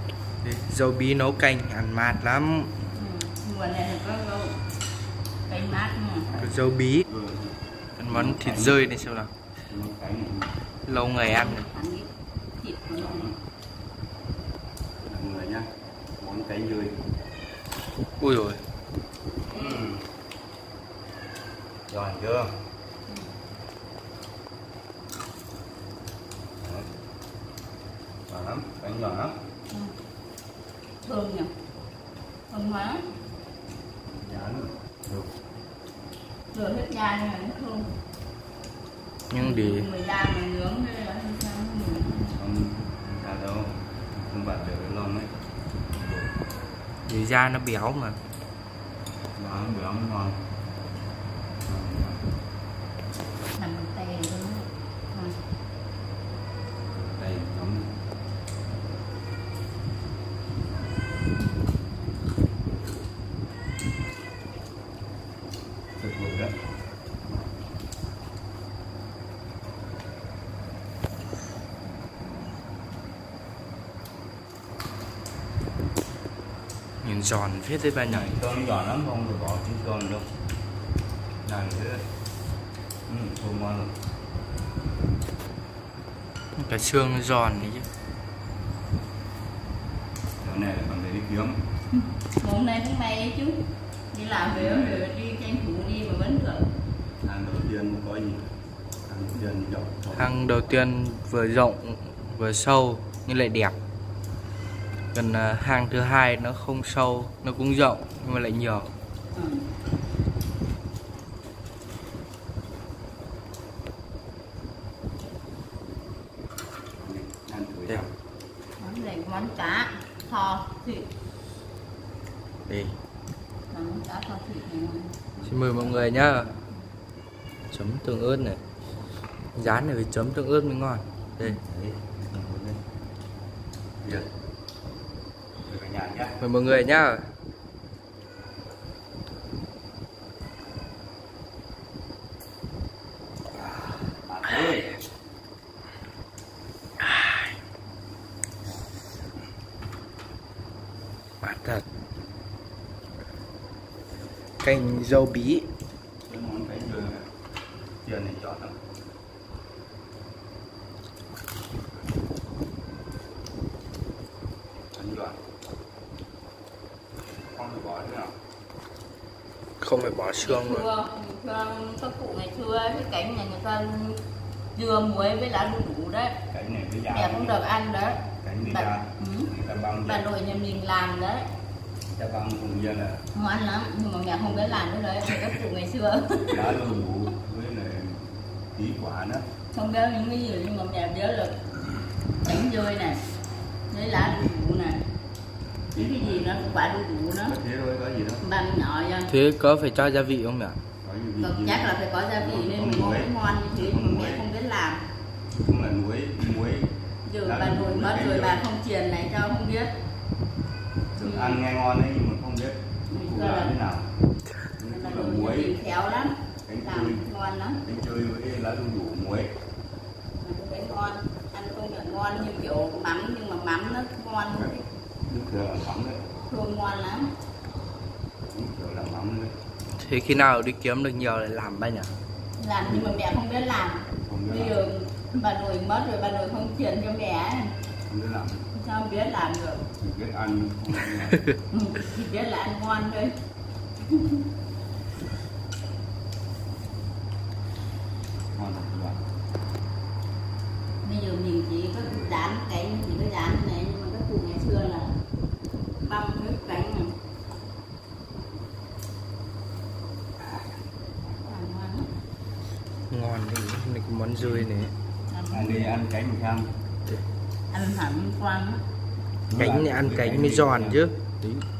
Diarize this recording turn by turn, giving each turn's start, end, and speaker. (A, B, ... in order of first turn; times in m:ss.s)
0:00.4-0:02.8 A
0:03.0-0:04.6 B
0:05.5-0:06.3 B
0:06.3-0:09.0 C
0:06.4-0:07.1 A
0:08.0-0:09.3 A
0:09.7-0:10.6 C
0:10.9-0:11.7 A
0:11.1-0:13.2 B
0:12.9-0:13.4 C
0:15.0-0:17.1 C
0:18.2-0:18.6 A
0:19.5-0:19.9 B
0:19.5-0:20.1 C
0:21.9-0:22.6 C
0:26.6-0:26.9 C
0:28.3-0:29.4 C
0:31.0-0:31.5 B
0:32.5-0:33.1 B
0:34.1-0:35.3 C
0:36.5-0:38.0 B
0:39.3-0:39.9 A
0:39.4-0:42.4 B
0:42.4-0:45.3 C
0:45.9-0:46.3 C
0:47.1-0:48.2 A
0:49.4-0:50.5 C
0:51.6-0:52.3 C
0:53.6-0:55.4 B
0:56.8-0:57.9 C
1:06.0-1:06.8 C
1:17.0-1:18.4 A
1:18.1-1:20.3 C
1:21.4-1:22.1 C
1:23.1-1:24.0 C
1:26.6-1:27.9 A
1:30.4-1:31.7 C
1:32.0-1:33.6 B
1:34.1-1:36.7 B
1:34.5-1:35.1 C
1:37.2-1:40.8 C
1:40.1-1:43.8 A
1:45.1-1:48.9 A
1:49.4-1:49.7 B
1:56.9-1:58.1 C
1:58.8-2:01.1 B
2:02.7-2:03.0 A
2:03.7-2:05.2 B
2:05.3-2:06.6 C
2:05.4-2:06.5 A
2:07.7-2:08.6 A
2:09.5-2:11.6 A
2:11.4-2:12.8 C
2:14.0-2:14.3 C
2:15.7-2:16.4 C
2:16.4-2:17.3 A
2:23.6-2:25.0 C
2:27.0-2:27.5 A
2:28.6-2:28.9 C
2:31.4-2:31.8 A
2:34.6-2:35.7 A
2:36.2-2:38.9 C
2:44.9-2:45.4 C
2:47.4-2:48.4 C
2:49.8-2:50.9 A
2:50.4-2:54.2 B
2:54.8-2:56.4 B
2:56.5-2:57.6 C
2:57.1-2:59.5 B
2:58.3-3:00.3 C
3:00.0-3:01.5 B
3:02.1-3:03.2 C
3:03.4-3:06.8 B
3:06.5-3:09.5 C
3:09.7-3:11.6 B
3:12.4-3:13.2 B
3:13.9-3:15.0 B
3:15.9-3:18.4 C
3:15.9-3:17.6 B
3:18.4-3:19.3 B
3:19.3-3:20.8 A
3:21.0-3:24.5 C
3:21.4-3:25.1 B
3:25.5-3:28.6 C
3:27.2-3:30.0 B
3:31.2-3:31.6 B
3:31.2-3:34.1 C
3:33.1-3:33.8 B
3:34.8-3:35.8 C
3:34.9-3:37.8 B
3:36.7-3:37.2 C
3:37.8-3:39.6 C
3:40.4-3:44.8 B
3:45.2-3:46.2 C
3:46.5-3:47.3 B
3:48.4-3:49.6 C
3:50.0-3:52.1 A
3:52.6-3:57.8 B
3:54.1-3:54.8 C
3:58.1-3:58.7 C
3:58.7-3:59.9 B
4:00.0-4:01.5 C
4:01.3-4:01.6 A
4:01.7-4:03.4 B
4:04.0-4:04.4 B
4:08.5-4:09.3 C
4:11.0-4:15.2 B
4:12.0-4:12.5 C
4:16.0-4:17.2 B
4:21.4-4:22.1 B
4:23.1-4:24.9 A
4:25.3-4:25.9 B
4:25.5-4:26.7 C
4:27.7-4:28.8 B
4:29.5-4:31.0 C
4:29.6-4:31.7 A